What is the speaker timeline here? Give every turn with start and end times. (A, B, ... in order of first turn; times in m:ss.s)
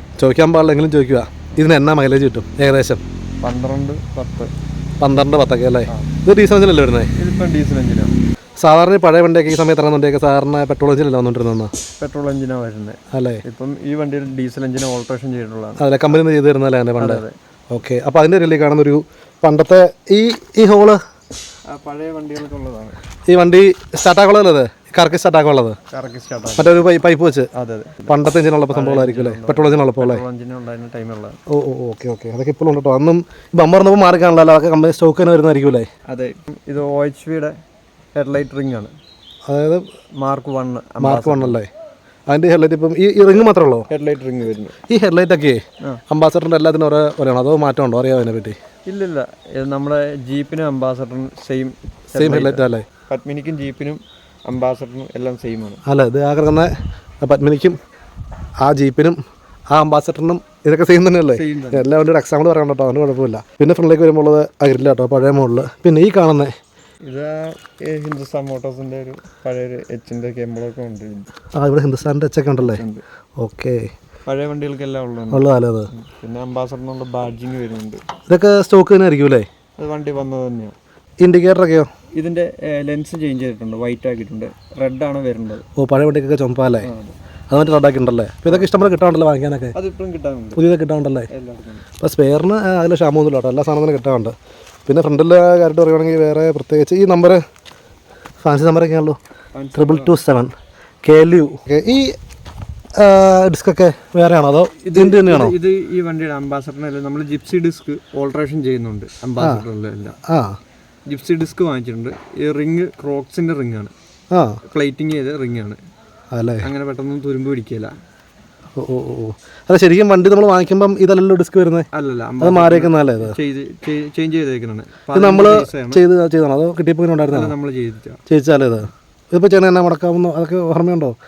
0:00.2-0:03.0 A
0:03.4-0:04.5 B
0:05.0-0:07.1 A
0:05.9-0:06.2 B
0:07.2-0:08.1 B
0:08.6-0:11.7 A
0:12.0-0:16.2 B
0:13.1-0:13.4 A
0:15.8-0:21.0 A
0:17.0-0:17.3 B
0:21.7-0:23.0 B
0:23.3-0:25.8 A
0:25.9-0:26.8 B
0:26.6-0:27.5 A
0:27.5-0:31.4 B
0:28.1-0:30.2 A
0:31.5-0:35.9 A
0:36.1-0:37.5 B
0:38.1-0:38.9 B
0:39.5-0:39.8 A
0:40.2-0:41.6 B
0:41.0-0:41.7 A
0:42.3-0:43.8 A
0:43.9-0:44.8 B
0:44.9-0:48.6 A
0:48.8-0:55.8 B
0:52.1-0:52.8 A
0:55.8-0:57.8 A
0:58.6-0:59.2 A
0:59.7-1:06.5 A
1:01.3-1:01.9 B
1:07.0-1:11.2 B
1:11.5-1:12.8 A
1:12.6-1:13.0 B
1:13.4-1:13.8 A
1:14.3-1:18.0 B
1:15.3-1:15.9 A
1:18.3-1:19.5 A
1:19.8-1:20.7 B
1:21.2-1:21.9 A
1:22.1-1:25.6 B
1:25.8-1:26.9 A
1:26.8-1:27.2 B
1:27.5-1:29.7 A
1:28.4-1:28.8 B
1:29.7-1:30.6 B
1:30.6-1:31.3 A
1:31.3-1:31.9 B
1:32.0-1:34.3 A
1:34.8-1:37.4 A
1:38.4-1:39.2 A
1:39.5-1:40.2 B
1:39.7-1:42.2 A
1:43.0-1:45.6 A
1:44.8-1:50.2 B
1:49.4-1:49.6 A
1:50.3-1:50.6 A
1:51.1-1:53.9 B
1:54.3-1:54.6 A
1:54.6-1:55.8 B
1:56.3-1:56.7 A
1:56.6-1:57.9 B
1:58.7-2:01.9 A
2:01.9-2:06.0 B
2:02.4-2:03.4 A
2:05.1-2:07.5 A
2:07.3-2:08.2 B
2:08.3-2:11.1 A